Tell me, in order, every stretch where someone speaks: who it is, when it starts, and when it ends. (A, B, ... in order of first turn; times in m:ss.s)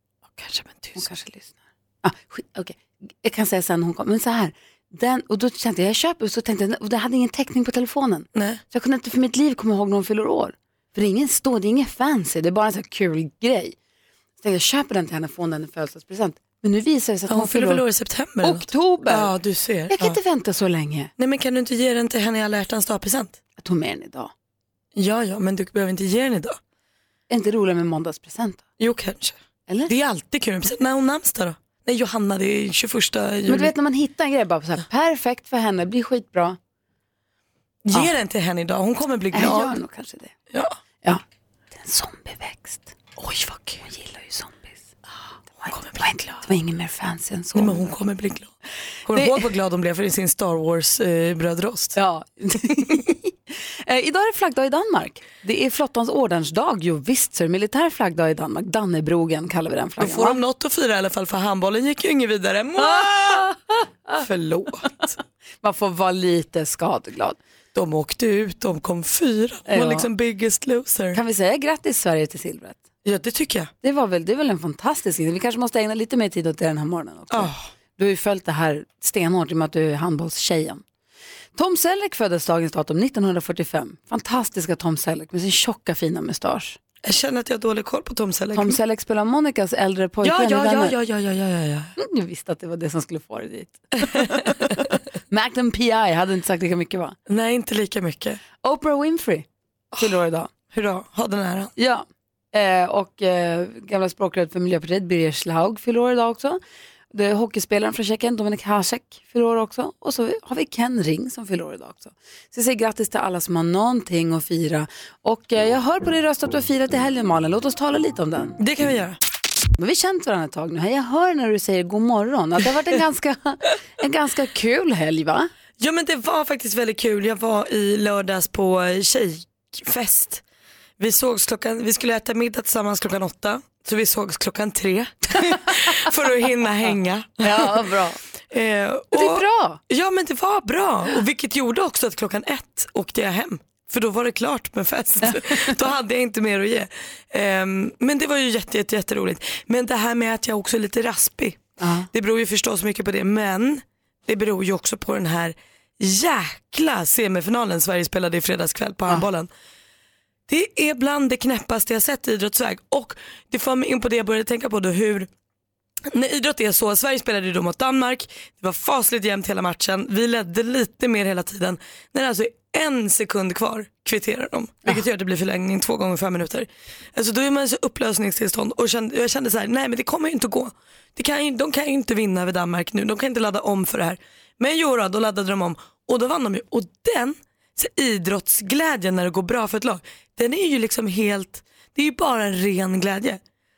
0:00.4-0:01.0 A
0:00.9-0:13.8 B
0:08.3-0:08.6 A
0:14.4-0:17.8 B
0:17.3-0:20.2 A
0:18.4-0:19.3 B
0:19.9-0:21.1 B
0:21.2-0:23.4 A
0:23.6-0:24.3 B
0:25.0-0:26.6 A
0:27.3-0:28.6 B
0:28.8-0:29.4 A
0:29.9-0:33.7 A
0:33.5-0:36.6 B
0:37.8-0:39.8 A
0:39.3-0:40.3 B
0:41.7-0:43.1 B
0:43.2-0:43.7 A
0:43.7-0:44.8 B
0:45.6-0:47.9 B
0:45.7-0:46.0 A
0:47.5-0:48.5 A
0:49.0-0:51.9 A
0:49.1-0:49.4 B
0:51.9-0:53.3 B
0:53.8-1:00.4 B
1:00.0-1:03.5 A
1:02.8-1:04.2 B
1:04.2-1:05.1 A
1:05.6-1:07.4 B
1:07.7-1:11.2 A
1:09.7-1:10.1 B
1:11.1-1:12.8 B
1:13.0-1:13.7 A
1:13.8-1:20.8 B
1:17.3-1:17.6 A
1:21.5-1:26.8 B
1:27.0-1:28.8 A
1:28.5-1:30.9 B
1:30.2-1:31.9 A
1:32.0-1:37.2 B
1:34.0-1:34.8 A
1:37.3-1:38.4 A
1:38.6-1:40.5 B
1:40.7-1:41.7 A
1:41.8-1:46.6 B
1:47.1-1:58.6 B
1:58.6-1:59.2 A
1:59.8-2:05.5 B
2:05.8-2:10.4 A
2:11.0-2:17.9 A
2:17.4-2:18.2 B
2:18.5-2:39.5 A
2:19.1-2:19.8 B
2:25.3-2:25.7 B
2:31.8-2:32.1 B
2:40.5-2:45.3 A
2:46.1-3:13.4 A